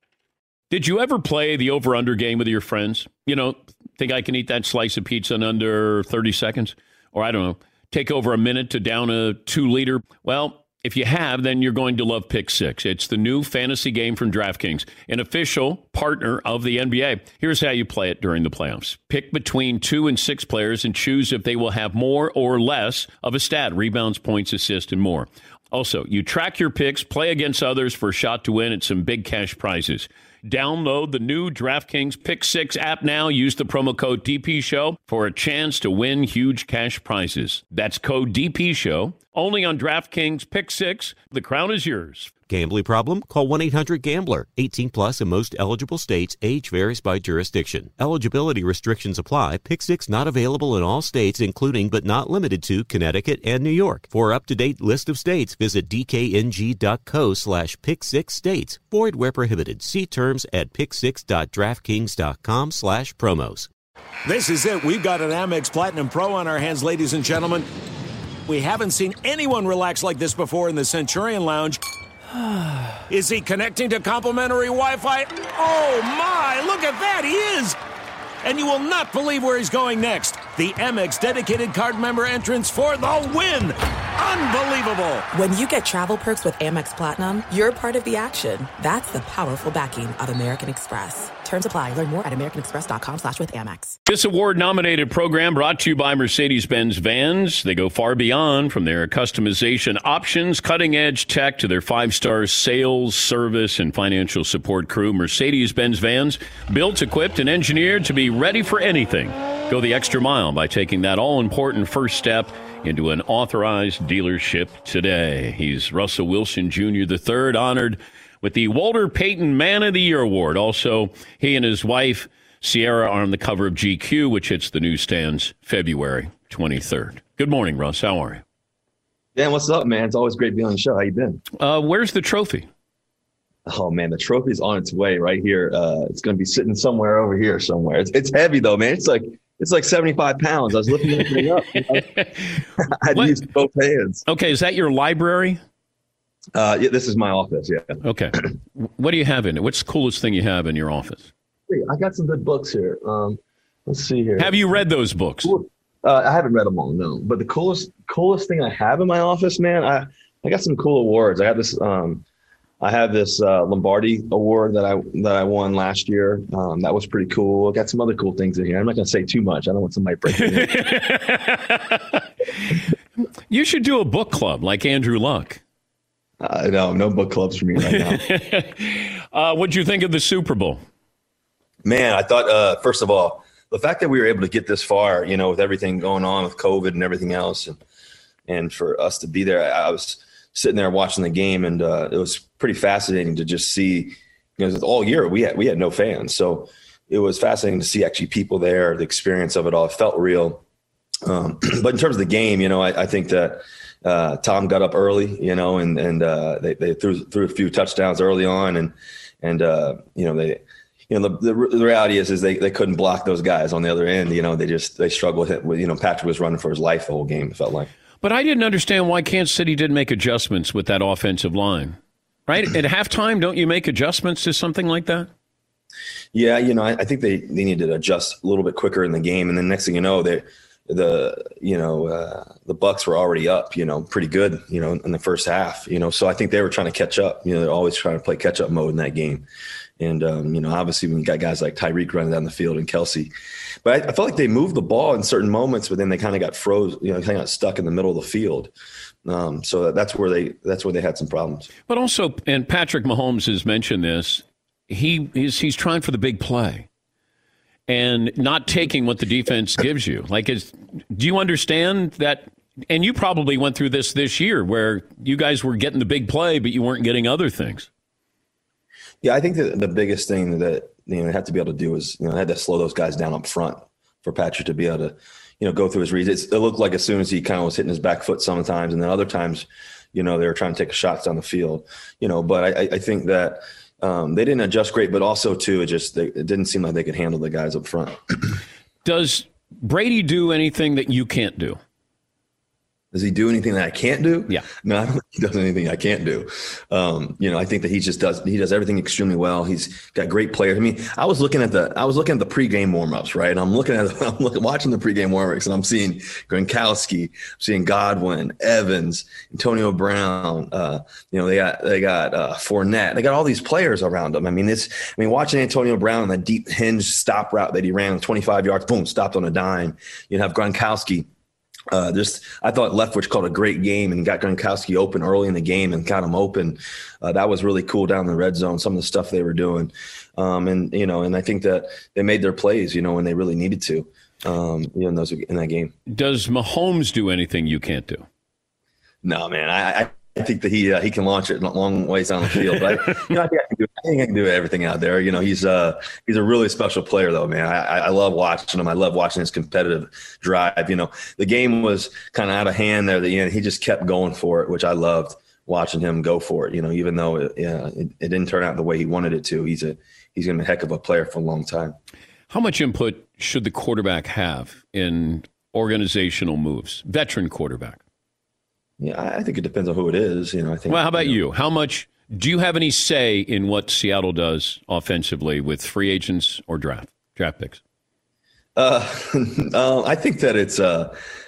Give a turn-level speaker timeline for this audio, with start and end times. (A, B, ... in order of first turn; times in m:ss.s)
0:00.7-0:42.3 A
0:42.5-1:03.7 B
1:04.2-1:07.7 C
1:08.5-1:11.8 C
1:13.1-1:17.8 C
1:18.4-1:25.3 C
1:25.3-1:34.0 D
1:34.1-2:08.4 A
2:09.4-2:11.4 E
2:11.6-2:12.7 A
2:13.7-2:22.1 E
2:21.9-2:22.6 A
2:22.8-2:24.2 E
2:23.1-2:23.4 A
2:24.3-2:25.6 A
2:26.6-2:28.0 E
2:28.0-2:31.3 A
2:31.7-2:34.8 E
2:34.4-2:35.6 A
2:35.4-2:42.2 E
2:42.8-2:50.8 E
2:50.4-2:52.2 A
2:53.5-2:55.6 A
2:56.4-2:58.2 E
2:57.8-3:00.8 A
3:01.8-3:07.8 E
3:08.5-3:20.6 E
3:21.3-3:37.9 E
3:38.2-3:45.3 A
3:46.3-3:59.4 E
4:00.0-4:03.3 E
4:03.8-4:08.7 E
4:09.3-4:11.7 E
4:11.9-4:16.9 A
4:17.9-4:27.9 A
4:29.2-4:48.6 E
4:49.0-4:51.8 A
4:53.1-5:21.3 E
5:21.9-5:35.9 E
5:36.1-5:38.3 A
5:39.2-6:02.0 E
6:02.5-6:08.0 A
6:09.0-6:11.4 E
6:10.9-6:17.8 A
6:18.8-6:21.2 E